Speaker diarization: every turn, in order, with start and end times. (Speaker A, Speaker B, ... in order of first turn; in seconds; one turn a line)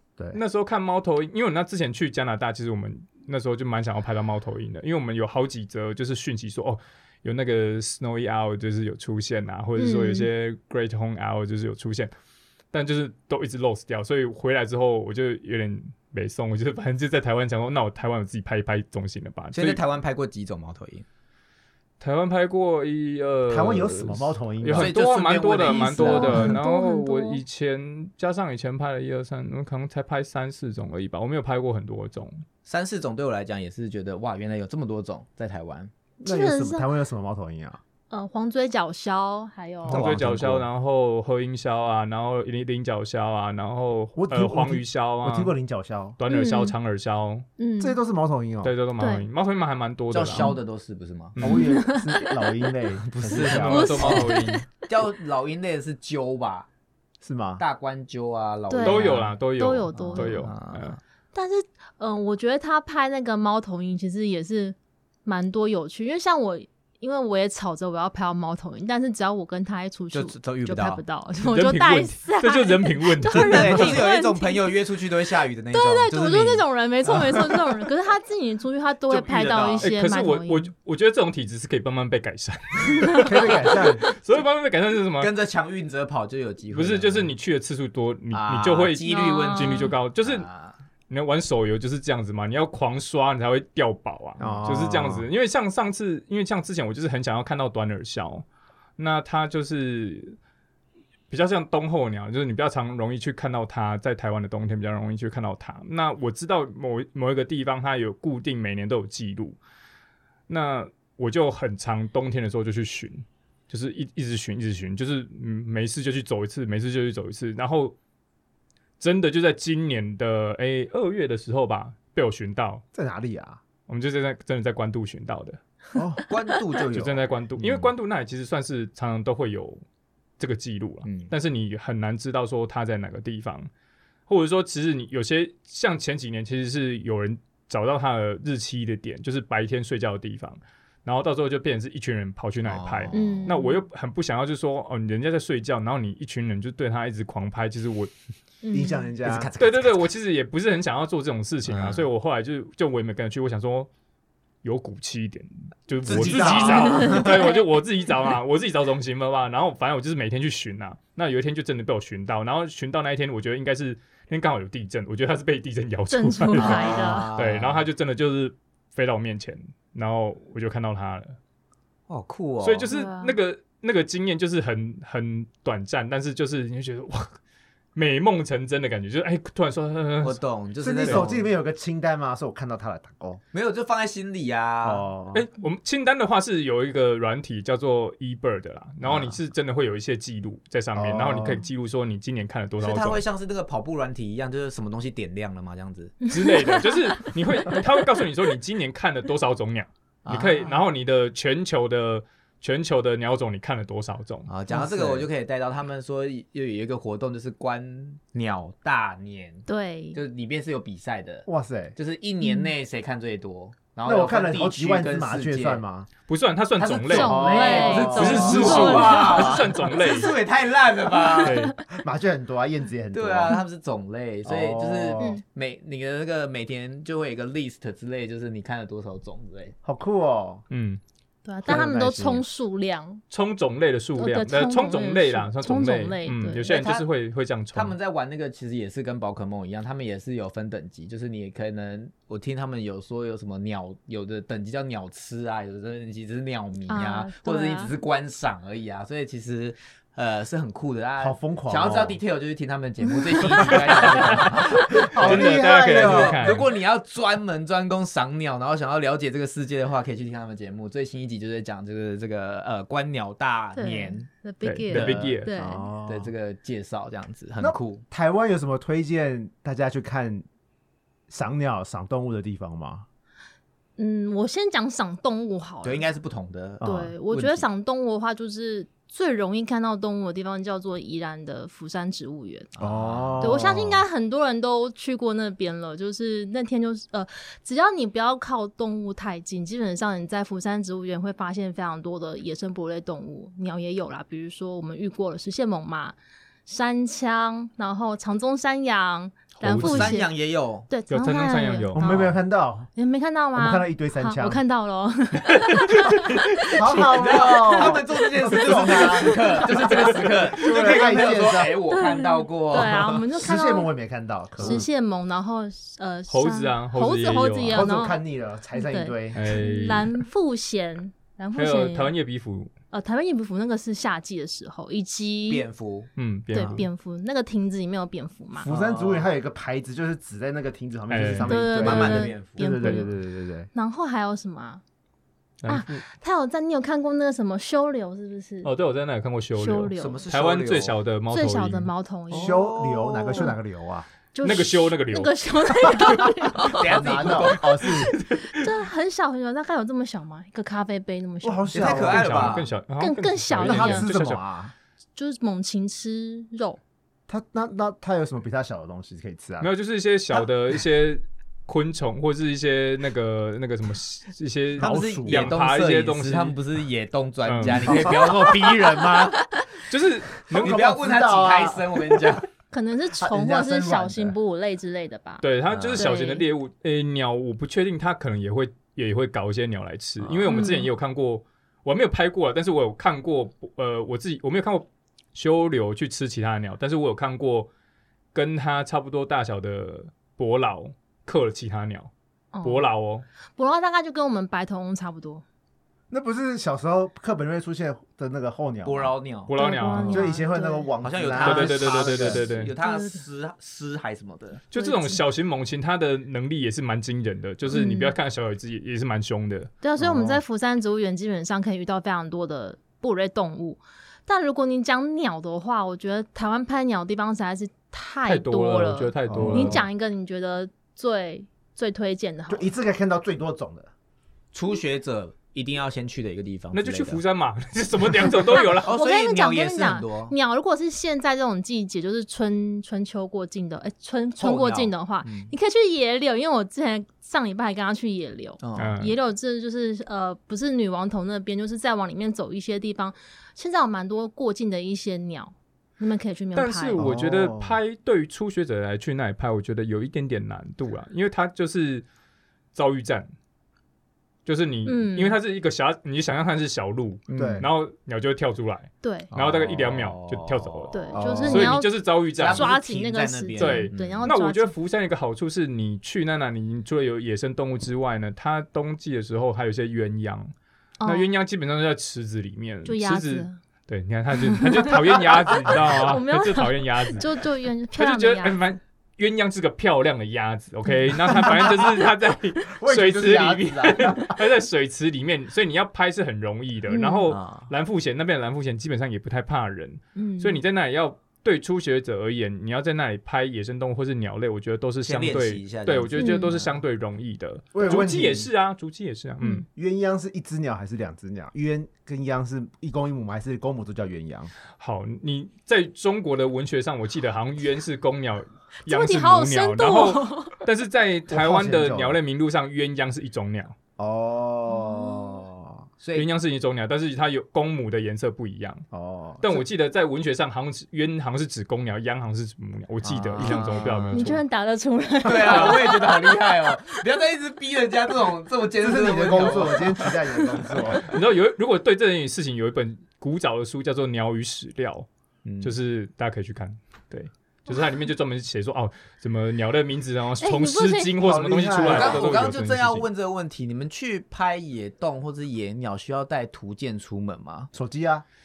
Speaker A: 0.3-12.1
Speaker B: 9.8-10.3
Speaker A: 12.7-19.8
Speaker C: 19.5-21.1
Speaker A: 22.0-32.4
Speaker D: 23.5-25.0
Speaker C: 24.7-26.5
Speaker B: 25.6-27.4
Speaker C: 32.7-35.9
Speaker B: 36.2-36.9
Speaker D: 36.2-37.8
Speaker B: 38.1-40.0
Speaker A: 39.9-45.5
Speaker C: 39.9-40.6
Speaker D: 40.0-40.6
Speaker D: 44.2-46.2
Speaker A: 46.2-47.5
Speaker B: 46.3-46.7
Speaker B: 47.6-48.0
Speaker D: 47.8-48.7
Speaker A: 48.6-50.5
Speaker B: 49.0-49.2
Speaker C: 50.1-51.4
Speaker A: 51.4-51.7
Speaker D: 51.4-54.1
Speaker B: 51.5-52.5
Speaker C: 53.1-54.3
Speaker A: 53.3-54.6
Speaker B: 53.7-54.8
Speaker C: 54.9-56.7
Speaker D: 57.2-57.6
Speaker C: 57.6-59.3
Speaker B: 58.7-60.4
Speaker A: 58.8-61.0
Speaker C: 59.9-61.0
Speaker B: 61.3-74.8
Speaker C: 70.1-71.0
Speaker A: 71.4-74.1
Speaker C: 73.3-76.7
Speaker B: 75.7-80.7
Speaker C: 77.2-77.6
Speaker C: 79.1-79.9
Speaker A: 79.8-85.3
Speaker B: 83.0-83.3
Speaker D: 83.2-84.0
Speaker C: 85.2-87.3
Speaker A: 86.7-90.5
Speaker C: 88.3-90.8
Speaker B: 89.0-90.0
Speaker A: 91.1-98.5
Speaker D: 94.4-95.3
Speaker C: 94.4-94.7
Speaker A: 99.0-100.4
Speaker A: 101.3-109.6
Speaker A: 110.5-118.0
Speaker A: 119.0-122.8
Speaker D: 122.9-123.6
Speaker A: 123.9-125.6
Speaker D: 126.0-126.2
Speaker C: 126.3-127.9
Speaker D: 126.8-127.2
Speaker A: 126.9-129.8
Speaker A: 130.4-133.7
Speaker C: 131.1-131.3
Speaker A: 134.3-148.1
Speaker C: 142.7-143.6
Speaker B: 143.1-143.8
Speaker B: 148.6-149.1
Speaker D: 148.7-149.5
Speaker C: 149.2-150.0
Speaker A: 149.6-153.9
Speaker C: 151.7-152.1
Speaker A: 154.6-171.4
Speaker C: 156.1-157.5
Speaker D: 156.1-157.1
Speaker B: 156.8-157.6
Speaker B: 166.1-167.3
Speaker C: 166.6-167.9
Speaker C: 172.1-172.9
Speaker A: 172.6-177.4
Speaker B: 172.9-173.3
Speaker A: 177.9-180.4
Speaker C: 180.2-181.5
Speaker D: 180.8-183.4
Speaker C: 183.5-185.1
Speaker D: 184.8-185.4
Speaker A: 185.3-193.2
Speaker C: 189.0-189.4
Speaker D: 190.9-191.7
Speaker C: 192.8-196.2
Speaker B: 196.2-197.3
Speaker A: 196.3-204.5
Speaker C: 200.2-200.7
Speaker C: 204.5-215.8
Speaker D: 204.7-205.3
Speaker B: 209.7-210.2
Speaker D: 211.5-212.0
Speaker B: 212.4-212.7
Speaker D: 214.1-216.1
Speaker A: 216.3-220.3
Speaker C: 216.8-221.6
Speaker B: 217.1-219.6
Speaker D: 217.2-219.6
Speaker B: 221.1-221.8
Speaker A: 221.4-221.8
Speaker D: 221.9-223.6
Speaker C: 223.1-229.8
Speaker D: 224.4-225.3
Speaker D: 229.8-230.6
Speaker A: 230.7-231.0
Speaker B: 231.4-233.2
Speaker D: 231.7-232.4
Speaker A: 233.3-238.0
Speaker B: 234.2-236.7
Speaker C: 236.7-237.1
Speaker C: 237.7-264.3
Speaker B: 246.9-247.9
Speaker D: 251.2-252.2
Speaker A: 253.7-254.4
Speaker D: 254.0-256.6
Speaker A: 255.2-256.7
Speaker B: 263.8-265.9
Speaker A: 264.6-265.5
Speaker C: 264.9-265.3
Speaker D: 265.2-266.3
Speaker C: 266.1-268.0
Speaker D: 267.6-270.4
Speaker D: 271.3-273.1
Speaker B: 274.0-276.1
Speaker C: 275.8-277.7
Speaker D: 276.8-277.1
Speaker B: 276.8-282.7
Speaker C: 282.8-283.6
Speaker D: 282.8-284.0
Speaker B: 283.4-300.3
Speaker A: 299.6-300.2
Speaker C: 299.8-300.9
Speaker B: 300.9-302.1
Speaker A: 301.1-302.3
Speaker D: 301.9-302.9
Speaker B: 303.0-309.5
Speaker D: 303.6-304.6
Speaker D: 306.8-311.8
Speaker C: 306.9-313.2
Speaker A: 310.6-311.4
Speaker B: 311.9-313.9
Speaker D: 313.4-314.9
Speaker B: 314.6-318.2
Speaker A: 316.3-317.9
Speaker D: 317.7-319.6
Speaker B: 318.7-322.1
Speaker A: 319.3-320.1
Speaker A: 321.6-322.7
Speaker B: 322.9-325.6
Speaker C: 325.5-326.1
Speaker A: 326.2-326.9
Speaker B: 326.5-328.7
Speaker D: 328.6-333.7
Speaker C: 328.6-329.3
Speaker A: 331.1-331.6
Speaker B: 331.4-333.1
Speaker C: 331.8-333.0
Speaker B: 333.7-334.8
Speaker A: 335.6-336.0
Speaker B: 335.7-338.7
Speaker A: 338.6-341.9
Speaker B: 339.6-340.2
Speaker C: 340.0-341.0
Speaker B: 341.3-342.7
Speaker C: 342.3-343.5
Speaker D: 342.3-344.1
Speaker B: 344.3-347.6
Speaker A: 344.4-345.3
Speaker C: 346.6-347.7
Speaker D: 346.7-348.1
Speaker A: 347.9-348.7
Speaker B: 348.4-352.1
Speaker D: 351.4-352.6
Speaker C: 351.7-352.7
Speaker A: 351.9-354.4
Speaker B: 353.0-354.1
Speaker D: 353.6-354.7
Speaker B: 355.2-356.8
Speaker D: 357.3-359.7
Speaker A: 359.6-366.6
Speaker D: 364.8-365.6
Speaker C: 364.8-369.4
Speaker A: 367.4-368.2
Speaker D: 367.9-368.7
Speaker A: 369.9-370.9
Speaker D: 370.5-372.4
Speaker C: 370.6-372.4
Speaker B: 372.7-375.4
Speaker D: 373.2-374.4
Speaker A: 375.4-387.7
Speaker C: 375.7-376.1
Speaker B: 376.0-376.4
Speaker C: 380.2-380.6
Speaker B: 380.5-380.9
Speaker A: 388.3-392.1
Speaker B: 392.5-392.9
Speaker A: 392.6-393.2
Speaker B: 393.6-395.4
Speaker D: 396.1-399.1
Speaker C: 398.8-399.5
Speaker A: 399.5-400.3
Speaker B: 399.6-400.9
Speaker D: 400.0-402.4
Speaker C: 401.0-404.6
Speaker A: 401.4-402.7
Speaker B: 402.8-403.2
Speaker A: 404.7-409.7
Speaker B: 404.8-405.2
Speaker B: 407.7-408.1
Speaker B: 409.8-422.7
Speaker D: 410.0-410.4
Speaker A: 418.2-419.9
Speaker D: 419.3-419.9
Speaker D: 422.5-423.9
Speaker C: 424.5-427.2
Speaker A: 426.7-428.9
Speaker B: 428.7-447.0
Speaker C: 428.8-430.4
Speaker C: 434.4-435.5
Speaker C: 438.6-439.0
Speaker A: 438.8-439.1
Speaker A: 446.6-452.1
Speaker D: 447.0-447.8
Speaker A: 452.7-453.3
Speaker A: 454.4-462.7
Speaker B: 454.9-455.4
Speaker C: 457.3-457.7
Speaker D: 457.3-457.7
Speaker B: 459.0-459.3
Speaker C: 459.3-461.2
Speaker B: 460.9-464.7
Speaker D: 461.1-461.8
Speaker C: 462.3-464.3
Speaker A: 463.6-470.5
Speaker B: 471.0-471.3
Speaker A: 471.1-499.7
Speaker B: 472.9-473.6
Speaker B: 474.4-478.6
Speaker B: 480.9-481.8
Speaker D: 481.3-482.0
Speaker D: 482.8-484.4
Speaker B: 486.9-487.4
Speaker C: 487.3-487.7
Speaker B: 490.2-490.6
Speaker C: 495.0-496.8
Speaker B: 496.2-496.6
Speaker D: 497.7-498.5
Speaker D: 499.7-504.5
Speaker A: 504.8-513.8
Speaker B: 508.9-510.6
Speaker D: 511.3-512.2
Speaker D: 514.0-515.9
Speaker B: 514.7-515.4
Speaker C: 516.0-516.3
Speaker A: 516.1-518.9
Speaker D: 518.9-519.6
Speaker A: 519.4-524.4
Speaker C: 523.0-524.4
Speaker B: 524.1-526.9
Speaker C: 525.2-530.1
Speaker A: 525.5-525.9
Speaker D: 528.8-531.1
Speaker A: 531.0-535.1
Speaker C: 535.4-535.8
Speaker A: 535.6-543.1
Speaker B: 540.4-541.2
Speaker D: 541.2-542.4
Speaker C: 541.8-547.7
Speaker D: 547.7-548.2